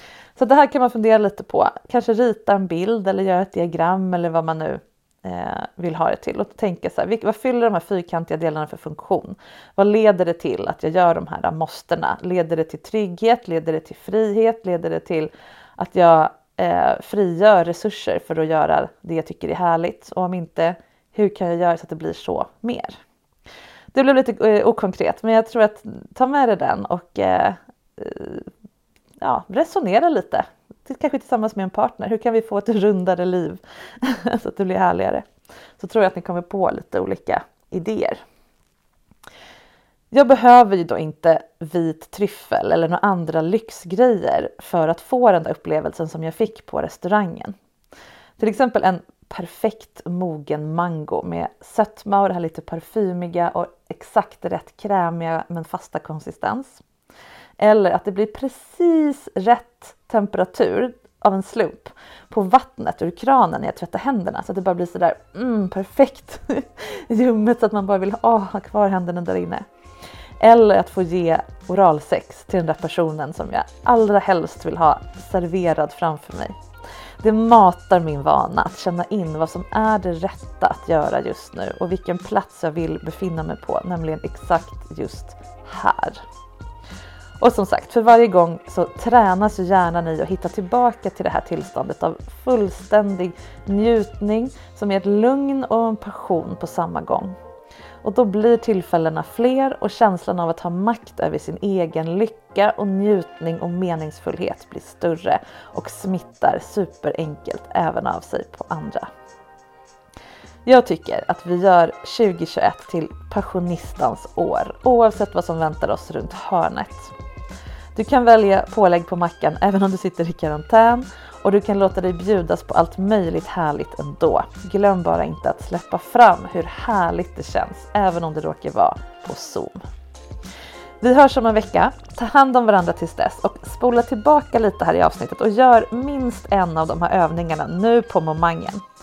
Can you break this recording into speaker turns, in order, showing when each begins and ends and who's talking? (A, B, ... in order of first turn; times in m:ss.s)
0:00.4-0:23.0 A
0:23.9-0:28.5 A
0:29.2-0:35.3 A
0:35.8-0:38.2 A
0:40.1-0:47.5 A
0:48.4-0:56.8 A
0:57.6-1:09.6 A
1:10.4-1:16.6 A
1:17.2-1:26.2 A
1:27.4-1:37.4 A
1:38.0-1:49.1 A
1:50.7-1:57.1 A
1:58.0-2:09.8 A
2:11.0-2:18.8 A